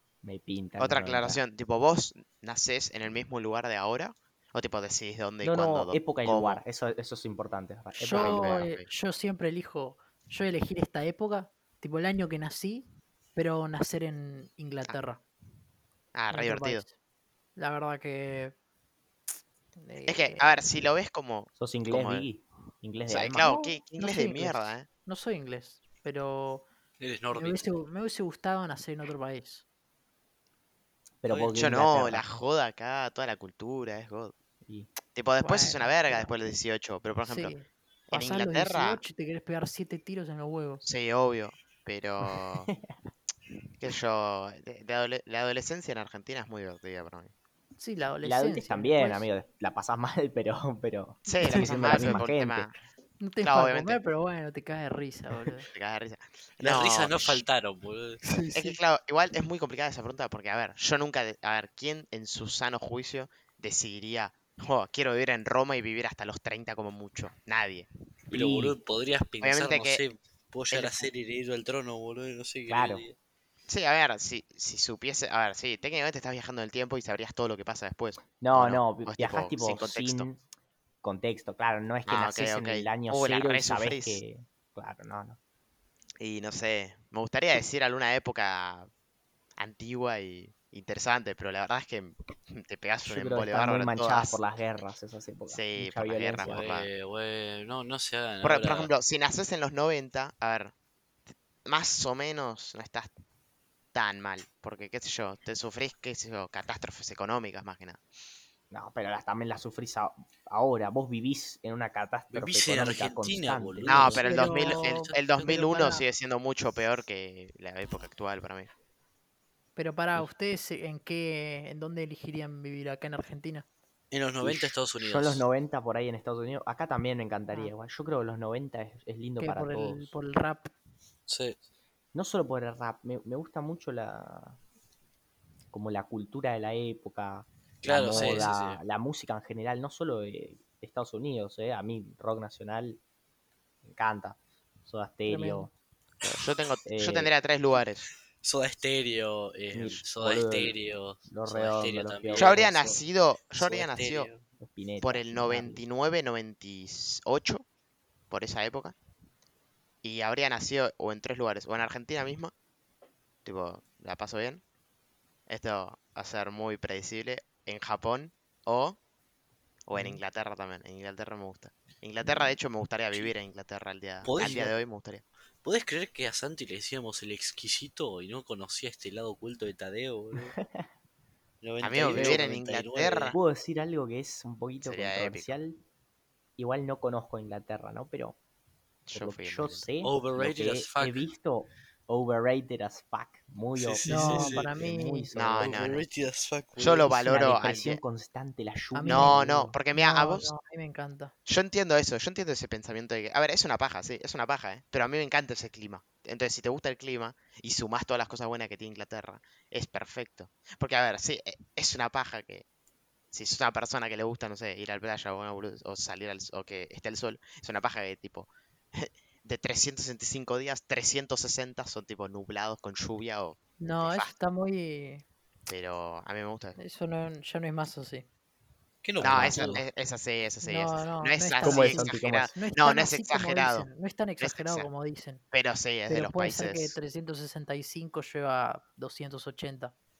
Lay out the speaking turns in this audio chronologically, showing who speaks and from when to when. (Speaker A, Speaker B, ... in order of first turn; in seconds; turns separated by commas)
Speaker A: 0.2-1.4, Speaker B: 0.8-6.6, Speaker A: 5.4-8.6, Speaker C: 8.0-15.2, Speaker B: 8.1-8.9, Speaker B: 16.1-16.8, Speaker C: 16.3-16.9, Speaker C: 17.6-18.6, Speaker C: 19.7-20.7, Speaker B: 20.1-22.3, Speaker A: 21.6-23.5, Speaker B: 23.1-24.9, Speaker C: 23.4-26.7, Speaker D: 27.0-27.6, Speaker C: 27.3-29.6, Speaker A: 31.2-32.3, Speaker D: 31.3-31.7, Speaker B: 31.5-34.3, Speaker A: 34.6-34.9, Speaker B: 35.1-37.5, Speaker C: 35.4-36.3, Speaker C: 37.2-40.8, Speaker B: 38.1-39.0, Speaker B: 40.8-42.7, Speaker A: 42.3-43.0, Speaker B: 43.8-47.3, Speaker C: 47.8-49.3, Speaker A: 48.2-52.8, Speaker B: 51.2-52.7, Speaker C: 51.4-52.2, Speaker C: 53.2-55.7, Speaker B: 53.4-54.0, Speaker B: 55.7-57.4, Speaker D: 56.6-58.2, Speaker C: 58.2-58.8, Speaker B: 58.5-67.9, Speaker A: 68.3-68.8, Speaker D: 68.3-73.2, Speaker B: 69.4-70.0, Speaker B: 70.7-71.1, Speaker A: 72.7-73.0, Speaker B: 73.7-80.3, Speaker A: 78.4-80.4, Speaker A: 81.0-85.4, Speaker B: 82.0-84.2, Speaker B: 86.2-88.9, Speaker B: 89.6-94.4, Speaker A: 93.0-96.6, Speaker B: 95.5-96.9, Speaker D: 96.4-98.9, Speaker B: 98.4-100.7, Speaker B: 101.6-103.1, Speaker B: 103.9-108.0, Speaker A: 108.7-114.3, Speaker D: 112.3-115.6, Speaker B: 113.8-118.7, Speaker C: 114.2-116.0, Speaker C: 119.8-123.7, Speaker D: 124.1-125.5, Speaker A: 124.4-130.1, Speaker C: 129.4-130.7, Speaker D: 131.3-131.6, Speaker A: 132.1-134.6, Speaker A: 135.7-143.0, Speaker D: 137.8-138.8, Speaker C: 138.1-138.4, Speaker A: 143.8-145.7, Speaker C: 145.3-145.7, Speaker B: 146.2-148.1, Speaker A: 146.8-147.3, Speaker D: 148.4-152.7, Speaker A: 149.7-153.0, Speaker B: 152.3-154.3, Speaker D: 153.5-154.4, Speaker A: 154.6-155.8, Speaker B: 155.0-157.6, Speaker B: 158.3-158.9, Speaker B: 160.0-162.5, Speaker B: 163.4-164.6, Speaker B: 165.5-169.0, Speaker B: 169.9-175.2, Speaker A: 169.9-170.2, Speaker D: 174.2-174.7, Speaker A: 174.3-174.8, Speaker D: 175.6-180.6, Speaker A: 180.6-180.9, Speaker D: 181.6-183.4, Speaker B: 181.8-183.4, Speaker A: 182.0-182.5, Speaker A: 183.3-185.8, Speaker B: 184.8-185.5, Speaker A: 186.6-188.4, Speaker B: 189.1-189.9, Speaker A: 189.1-195.8, Speaker D: 190.0-191.3, Speaker D: 193.8-194.7, Speaker C: 194.1-195.3, Speaker B: 195.3-196.0, Speaker D: 195.6-197.2, Speaker B: 196.8-198.0, Speaker A: 197.1-199.8, Speaker C: 198.9-201.3, Speaker B: 199.0-200.5, Speaker B: 201.4-212.6, Speaker B: 213.3-224.3, Speaker C: 223.8-225.2, Speaker B: 225.7-226.8, Speaker C: 226.8-228.2, Speaker D: 229.0-229.8, Speaker A: 229.2-229.7, Speaker B: 229.2-234.9, Speaker C: 230.6-235.4, Speaker A: 231.6-232.5, Speaker B: 235.5-236.9, Speaker C: 236.1-239.9